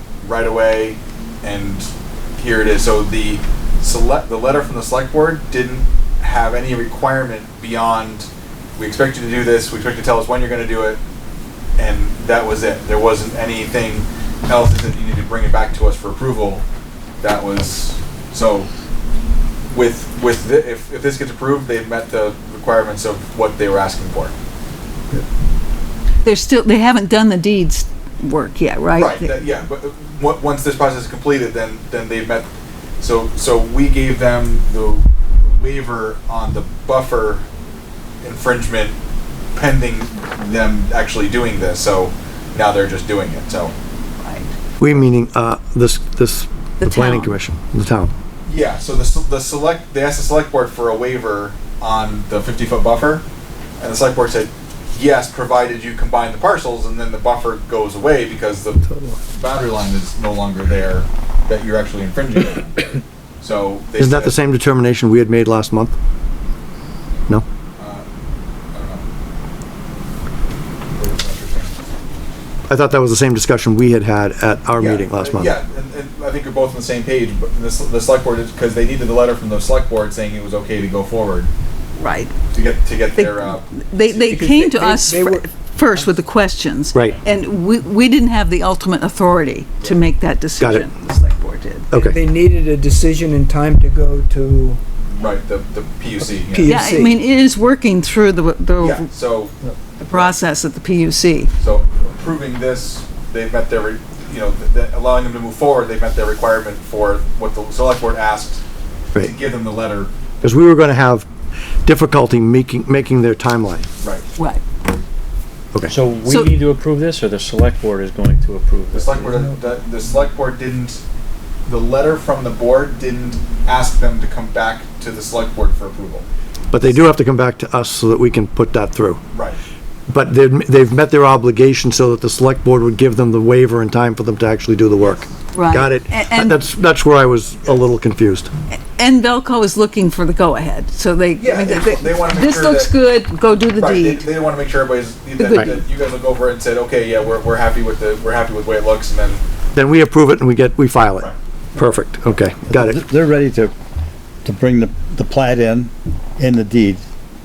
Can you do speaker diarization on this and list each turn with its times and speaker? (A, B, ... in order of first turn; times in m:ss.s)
0:00.2-0:11.0 A
0:11.8-0:16.7 A
0:17.2-0:18.7 A
0:19.7-0:24.4 A
0:26.2-0:29.5 B
0:29.0-0:37.5 A
0:38.2-0:39.0 A
0:39.6-0:43.8 A
0:44.2-0:44.5 B
0:44.8-0:48.1 C
0:46.8-0:47.3 B
0:48.5-0:53.2 A
0:53.8-1:02.8 A
1:03.4-1:04.4 A
1:04.0-1:06.0 C
1:07.8-1:08.0 A
1:08.7-1:09.1 A
1:11.0-1:11.7 A
1:12.7-1:15.5 C
1:14.8-1:21.5 A
1:22.0-1:22.3 B
1:22.5-1:24.2 A
1:23.2-1:31.9 B
1:24.2-1:26.1 D
1:30.6-1:30.9 C
1:31.9-1:32.2 C
1:32.0-1:34.8 D
1:35.2-1:36.9 A
1:36.5-1:37.2 D
1:36.6-1:39.1 B
1:38.8-1:40.3 A
1:40.0-1:41.5 B
1:41.6-1:48.6 A
1:49.2-1:50.1 A
1:50.4-1:51.3 C
1:51.8-1:53.9 C
1:54.0-1:54.3 A
1:54.4-1:54.6 B
1:55.9-1:59.4 E
1:58.9-2:01.0 A
2:01.7-2:06.3 A
2:06.7-2:09.2 C
2:09.3-2:09.6 A
2:10.1-2:18.5 C
2:15.5-2:16.6 B
2:18.7-2:24.3 B
2:21.4-2:22.9 A
2:23.8-2:29.4 A
2:25.4-2:25.8 B
2:29.8-2:33.0 C
2:32.7-2:33.7 F
2:34.4-2:37.0 F